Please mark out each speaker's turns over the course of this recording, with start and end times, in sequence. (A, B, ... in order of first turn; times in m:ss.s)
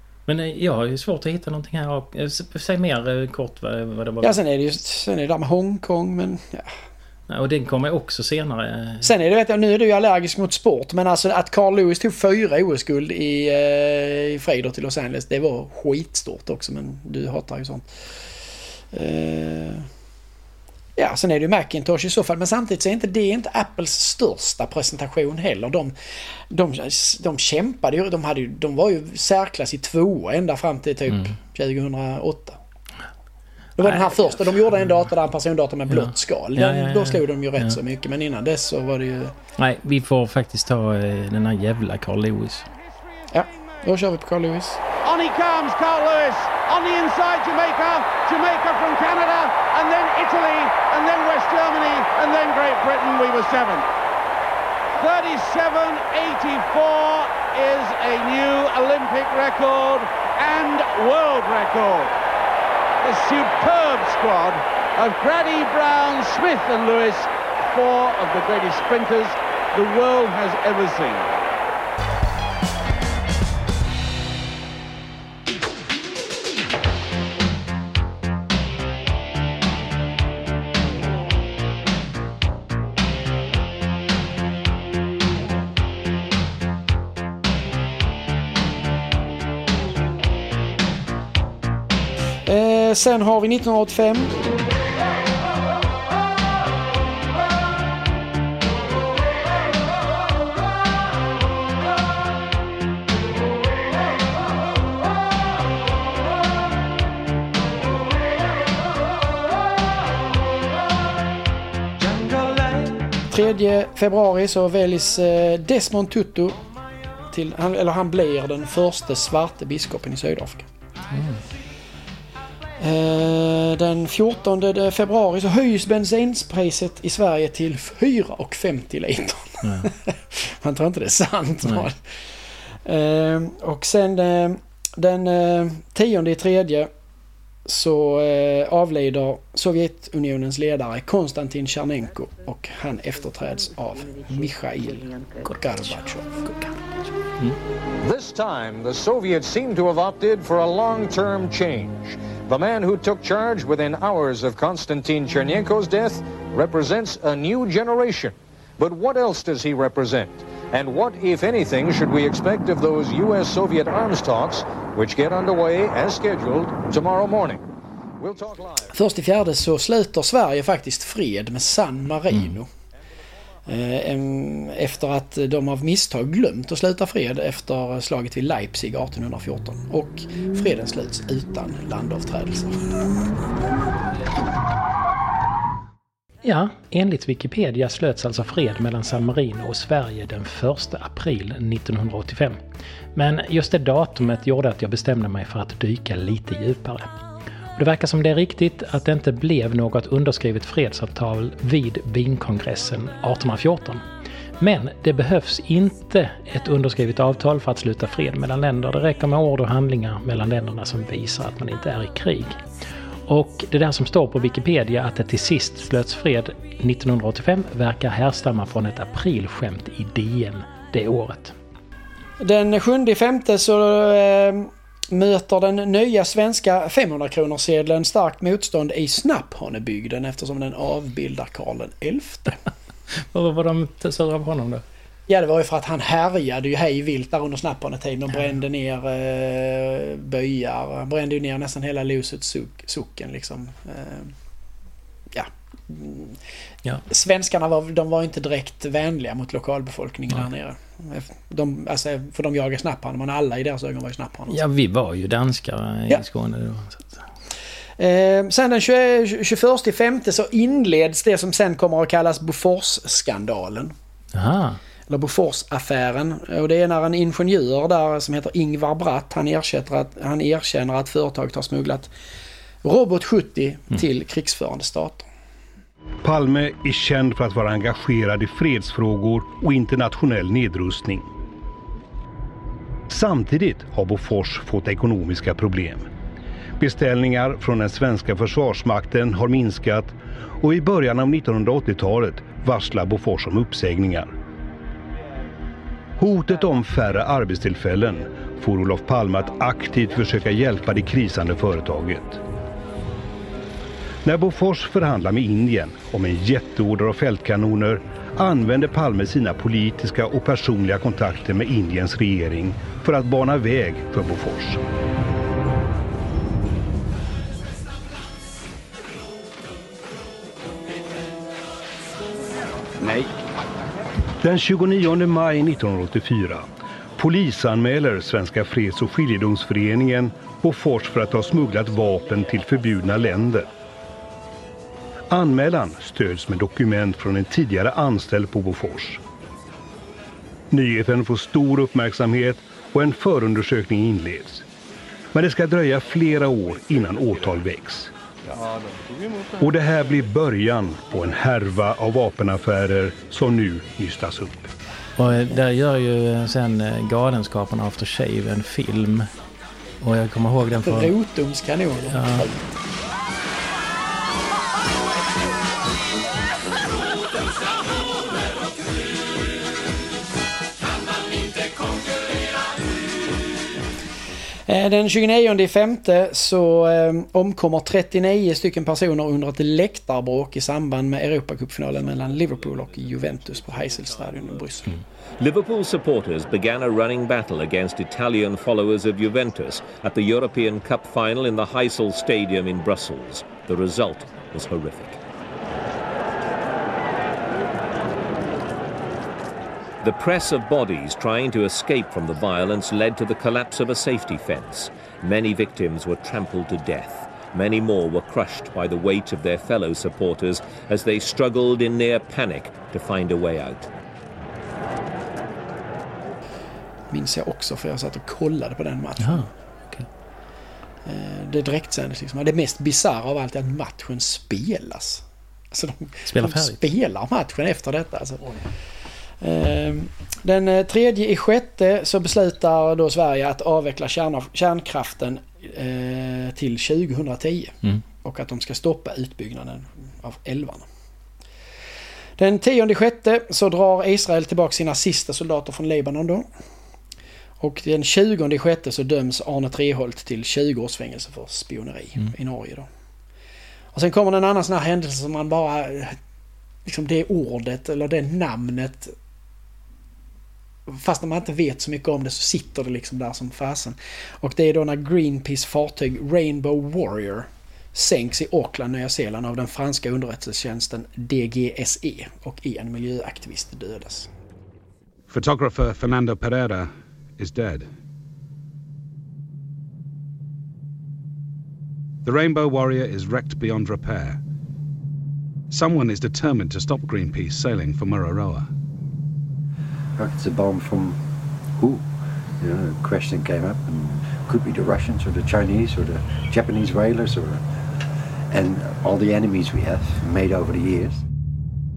0:00.2-0:04.4 A
0:04.2-0:06.8 B
0:07.3-0:09.1 A
0:09.0-0:17.8 B
0:18.9-0:19.9 B
0:21.0-0:25.9 B
0:26.5-0:32.6 B
0:33.8-0:39.4 B
0:33.8-0:34.3 A
0:35.9-0:37.8 A
0:39.6-0:42.7 A
0:43.3-0:44.8 B
0:45.0-0:53.8 C
0:54.9-1:02.1 C
1:03.0-1:11.3 C
1:32.4-1:34.3 B
1:53.3-1:56.6 B
1:57.3-2:00.7 B
2:01.1-2:01.4 A
2:02.8-2:12.0 B
2:09.6-2:09.9 A
2:12.8-2:16.9 B
2:17.6-2:26.9 B
2:28.0-2:47.6 D
2:48.2-2:48.9 D
2:48.9-2:52.7 B
2:53.7-3:02.9 B
3:06.4-3:12.6 A
3:13.1-3:17.1 A
3:17.8-3:24.0 A
3:24.6-3:32.6 A
3:33.3-3:41.5 A
3:42.4-3:52.6 B
3:53.3-3:54.8 A
3:55.3-4:04.3 B
4:05.3-4:06.4 B
4:07.1-4:14.6 B
4:14.5-4:17.2 A
4:18.0-4:23.9 B
4:24.3-4:24.8 A
4:25.1-4:32.1 B
4:32.8-4:35.3 B
4:36.2-4:41.3 E
4:43.1-4:46.1 E
4:46.8-4:54.3 E
4:56.2-5:02.4 E
5:04.2-5:14.8 E
5:24.4-5:33.7 E
5:35.3-5:39.2 E
5:40.7-5:44.6 E
5:45.3-5:48.1 E
5:49.6-5:54.7 E
5:55.2-5:59.3 A
6:00.0-6:01.1 A
6:00.8-6:02.7 B
6:02.1-6:02.5 A
6:14.7-6:24.9 B
6:25.4-6:35.2 F
6:40.0-6:53.9 F
6:57.1-6:59.5 B
6:59.2-7:00.1 A
7:01.0-7:08.6 B
7:06.3-7:06.8 A
7:09.4-7:20.9 B
7:22.4-7:26.5 B
7:27.6-7:32.9 B
7:33.9-7:36.2 B
7:36.8-7:39.1 B
7:40.9-7:54.3 B
7:55.3-7:57.9 G
8:02.2-8:04.4 G
8:05.7-8:08.7 G
8:10.2-8:11.2 H
8:11.8-8:12.1 H
8:12.6-8:17.6 H
8:18.5-8:21.2 H